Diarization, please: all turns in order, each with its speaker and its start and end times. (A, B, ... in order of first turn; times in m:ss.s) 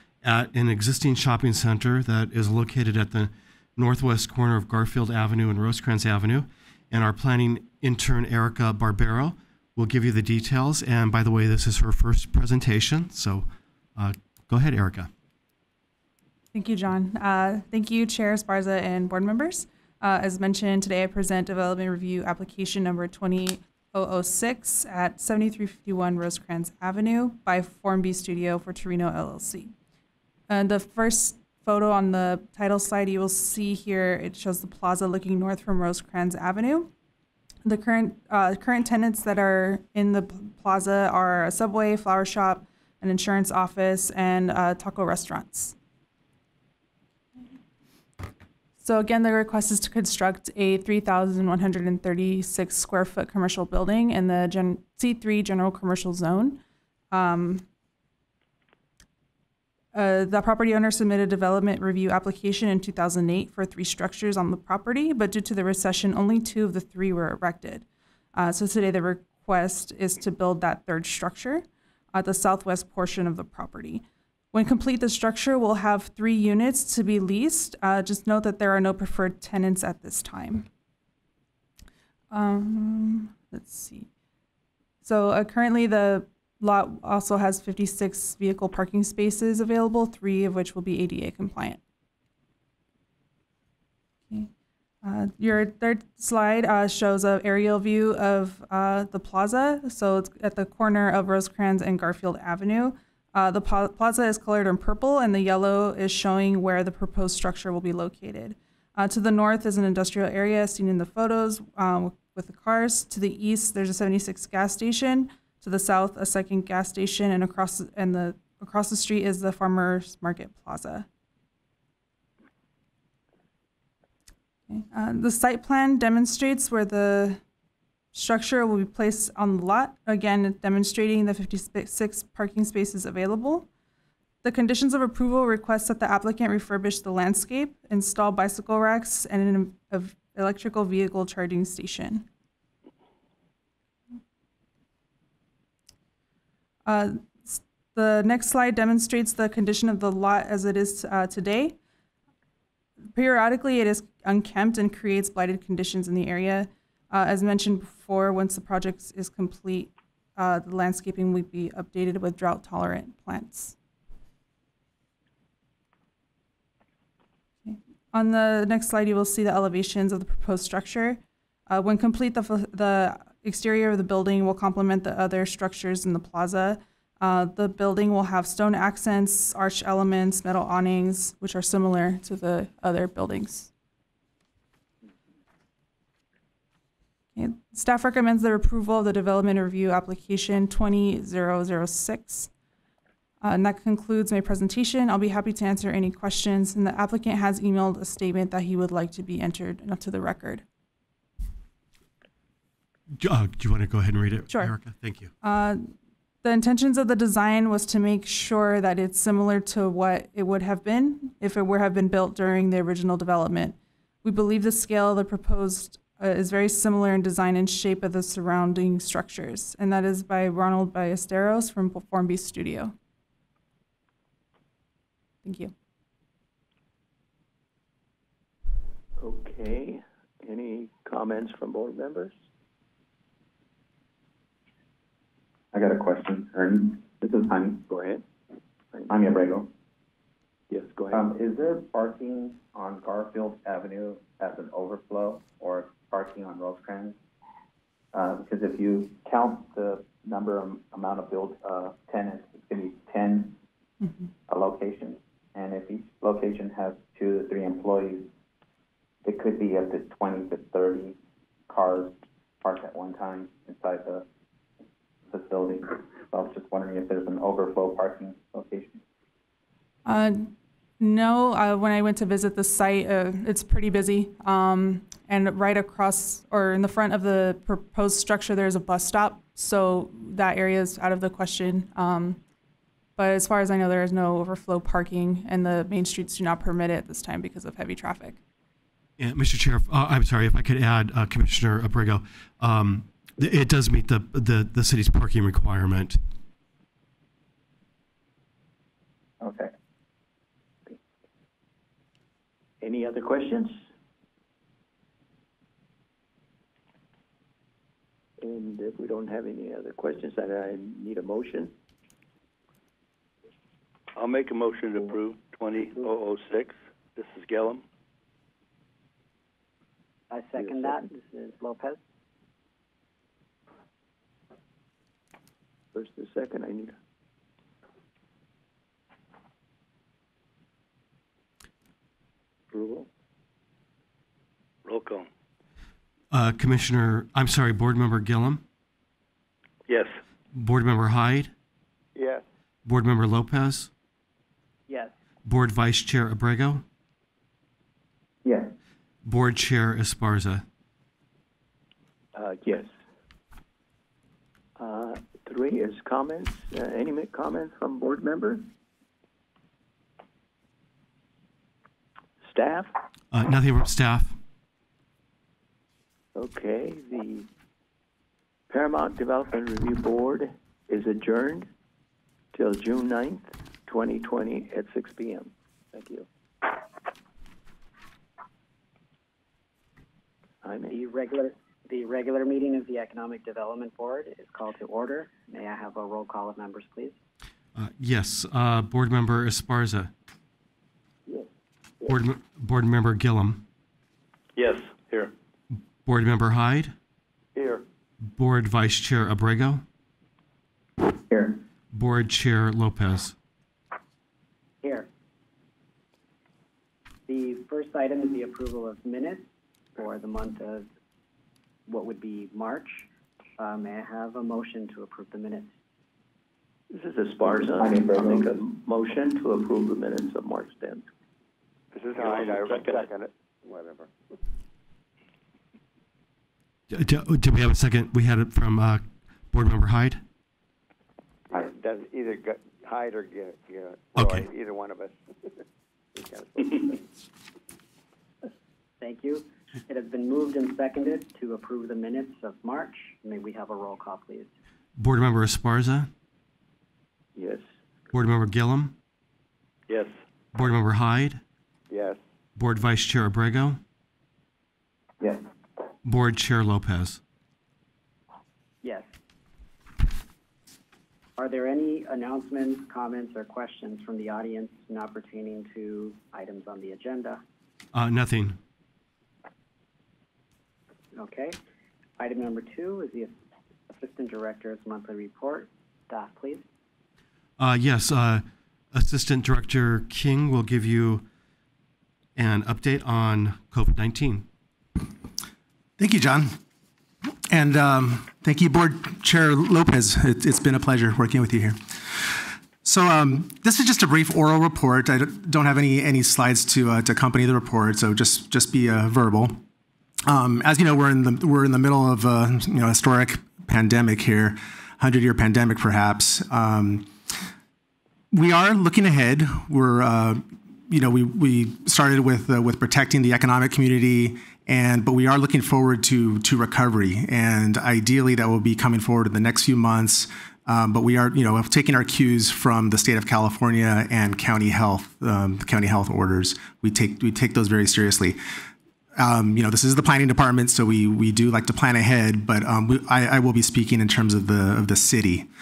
0:00.2-0:15.1 A
0:16.5-0:29.7 B
0:30.5-0:36.9 B
0:37.6-0:45.8 B
0:48.8-0:56.6 B
0:57.1-0:57.6 B
0:59.9-1:20.7 B
1:22.3-1:24.1 B
1:25.0-1:31.8 B
1:35.0-2:01.1 B
2:04.7-2:07.4 B
2:08.1-2:13.7 B
2:14.4-2:22.3 B
2:26.9-2:31.8 B
2:33.1-2:43.8 B
2:47.6-3:03.7 B
3:07.4-3:12.5 B
3:13.4-3:20.6 B
3:23.2-3:25.3 A
3:24.5-3:24.8 B
3:25.4-3:42.9 B
3:45.4-3:45.7 B
3:49.2-3:52.4 C
3:55.7-3:57.8 D
3:57.9-3:58.2 C
3:59.1-3:59.7 D
4:00.7-4:01.3 C
4:01.1-4:07.2 D
4:08.1-4:13.6 D
4:14.0-4:14.3 B
4:14.5-4:18.3 D
4:19.2-4:21.2 D
4:21.7-4:24.3 D
4:25.3-4:29.0 D
4:30.1-4:42.4 B
4:43.2-4:48.4 B
4:49.2-4:56.2 A
4:59.4-4:59.7 D
5:02.8-5:03.8 C
5:08.4-5:11.7 C
5:14.2-5:17.8 E
5:20.3-5:22.0 F
5:20.6-5:21.1 C
5:25.9-5:27.0 C
5:32.7-5:33.1 C
5:34.8-5:35.3 E
5:36.3-5:38.6 A
5:39.9-5:40.1 E
5:40.5-5:41.5 A
5:42.2-5:42.4 G
5:42.8-5:43.9 A
5:44.9-5:45.2 F
5:45.4-5:46.8 A
5:48.4-5:48.7 D
5:49.2-5:50.7 A
5:52.3-5:52.9 C
5:54.8-5:58.7 C
6:02.4-6:02.9 C
6:03.3-6:04.4 A
6:06.4-6:07.5 C
6:08.7-6:11.7 C
6:12.5-6:16.3 C
6:20.6-6:21.0 C
6:20.9-6:27.2 F
6:27.8-6:30.1 A
6:32.1-6:33.6 A
6:34.6-6:35.3 E
6:36.0-6:37.0 A
6:37.6-6:37.8 G
6:38.2-6:39.8 A
6:41.3-6:41.6 D
6:41.9-6:43.4 A
6:44.8-6:45.1 F
6:47.3-6:50.9 F
6:51.9-6:53.0 F
6:53.6-6:55.7 F
6:56.9-7:01.1 C
6:57.8-6:58.6 D
7:01.9-7:04.1 G
7:02.2-7:03.1 E
7:06.9-7:10.2 A
7:11.5-7:15.2 G
7:14.2-7:14.4 A
7:16.2-7:17.0 G
7:19.0-7:24.5 F
7:25.0-7:26.1 A
7:27.4-7:27.7 C
7:28.1-7:29.0 A
7:29.9-7:30.2 E
7:30.5-7:31.4 A
7:31.9-7:32.2 G
7:32.6-7:33.8 A
7:36.0-7:37.2 A
7:38.8-7:39.1 F
7:41.4-7:47.4 F
7:47.9-7:48.6 A
7:51.2-7:51.6 F
7:52.2-7:53.4 F
7:53.9-7:56.6 F
7:57.6-8:01.2 A
8:02.4-8:04.5 A
8:06.0-8:06.6 H
8:07.5-8:19.6 H
8:20.3-8:27.1 H
8:28.3-8:48.4 H
8:49.2-8:55.5 H